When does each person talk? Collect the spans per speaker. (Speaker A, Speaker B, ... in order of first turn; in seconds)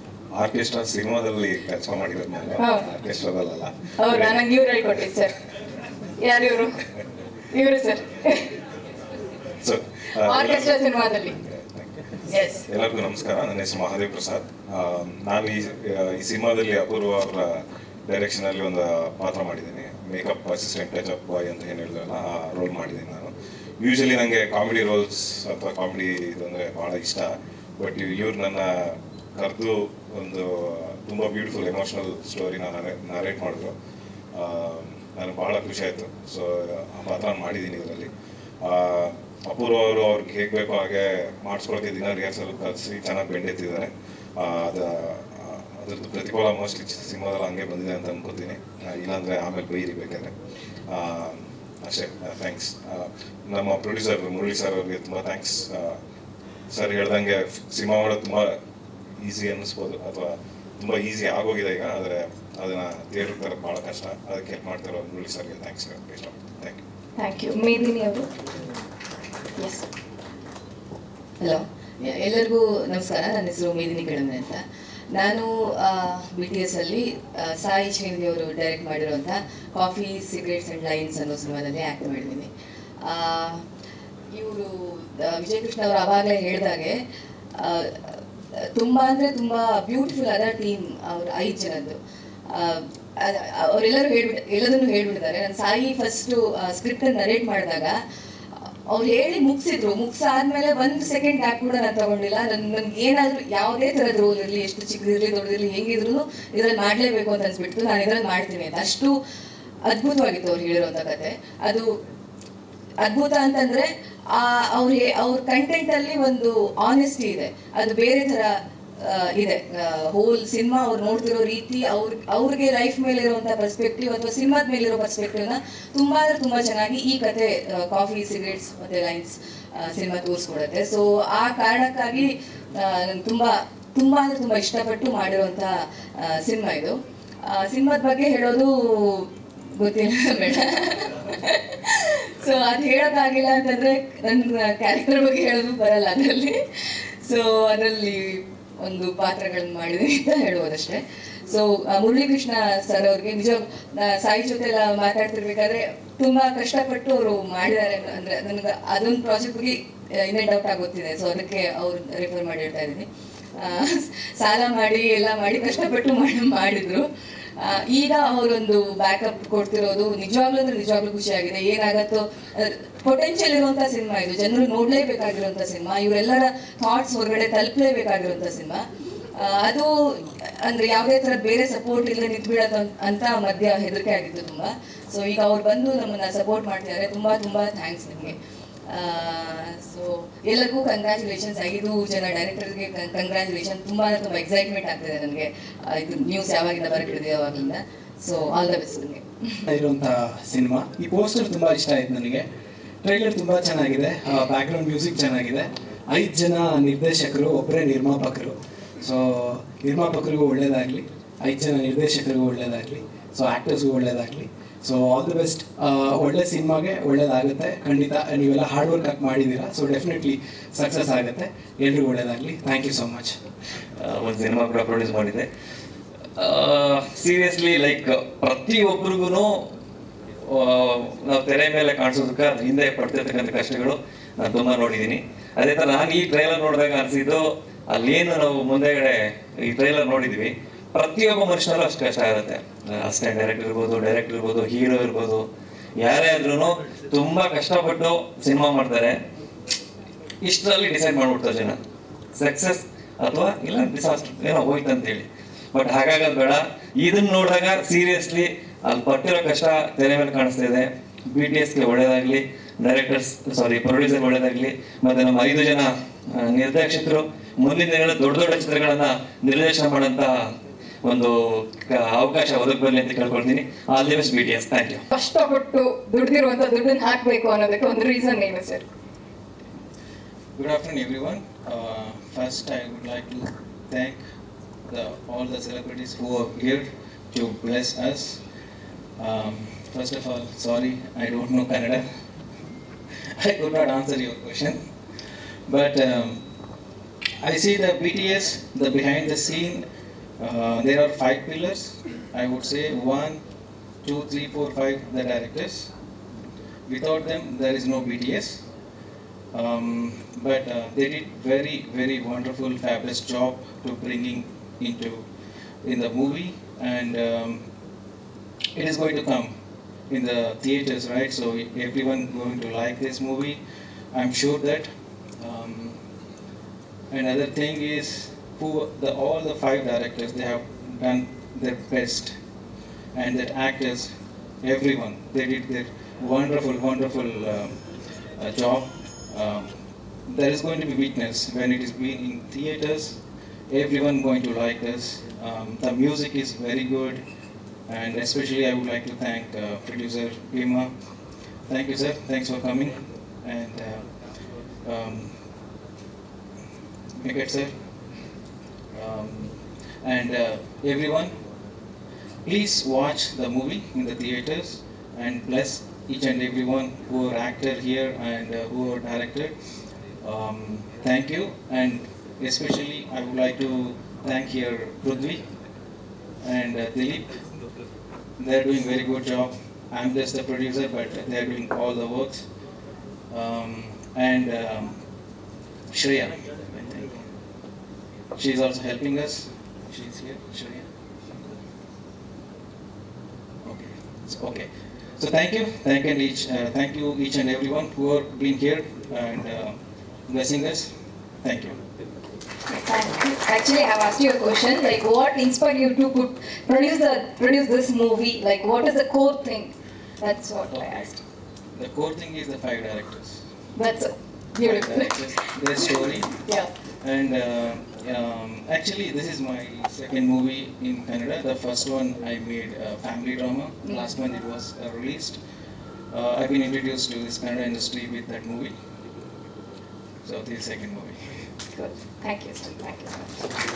Speaker A: 0.3-4.5, 9.6-33.7, 34.3-38.1, 38.6-50.3, 50.9-56.0, 56.7-58.5, 59.2-66.8
Speaker B: 2.6-2.9, 4.0-5.3, 6.2-6.8, 7.5-8.5, 10.2-11.3, 67.2-68.3, 69.5-69.9, 275.1-278.9, 402.7-411.1, 413.8-415.3, 416.4-416.7, 431.7-433.4
Speaker C: 71.4-74.6, 75.1-82.5, 83.0-83.6, 84.3-86.9, 87.6-88.2, 88.8-92.0, 92.5-97.9, 98.9-109.1, 109.9-111.8, 113.0-118.5, 119.1-135.7, 136.2-136.9, 137.5-163.1, 163.6-167.1, 167.6-178.8, 179.4-188.3, 188.9-199.6
Speaker D: 199.7-202.5, 203.0-223.4
Speaker E: 224.0-225.5, 226.4-229.6, 230.4-245.4, 246.0-249.2, 250.4-251.8, 252.3-270.3, 271.0-275.0
Speaker F: 280.6-284.2, 284.9-288.4, 289.2-292.0, 293.3-294.8, 295.7-296.4, 297.4-299.8, 300.4-303.4, 304.0-305.9, 306.9-308.6, 309.5-315.2, 315.8-317.6, 318.7-319.5, 320.1-323.6, 324.1-326.0, 327.1-332.4, 333.1-337.8, 338.4-339.7, 340.3-347.2, 347.9-350.9, 351.7-354.1, 354.8-355.4, 357.2-357.7, 358.9-361.3, 362.4-369.5, 370.2-375.4, 376.4-377.4, 378.4-382.4, 383.3-385.0, 385.9-387.1, 388.3-390.9, 393.6-400.9, 401.4-401.8, 410.6-411.2, 411.7-413.4, 414.6-416.5, 417.0-425.4, 426.1-428.7, 430.2-431.3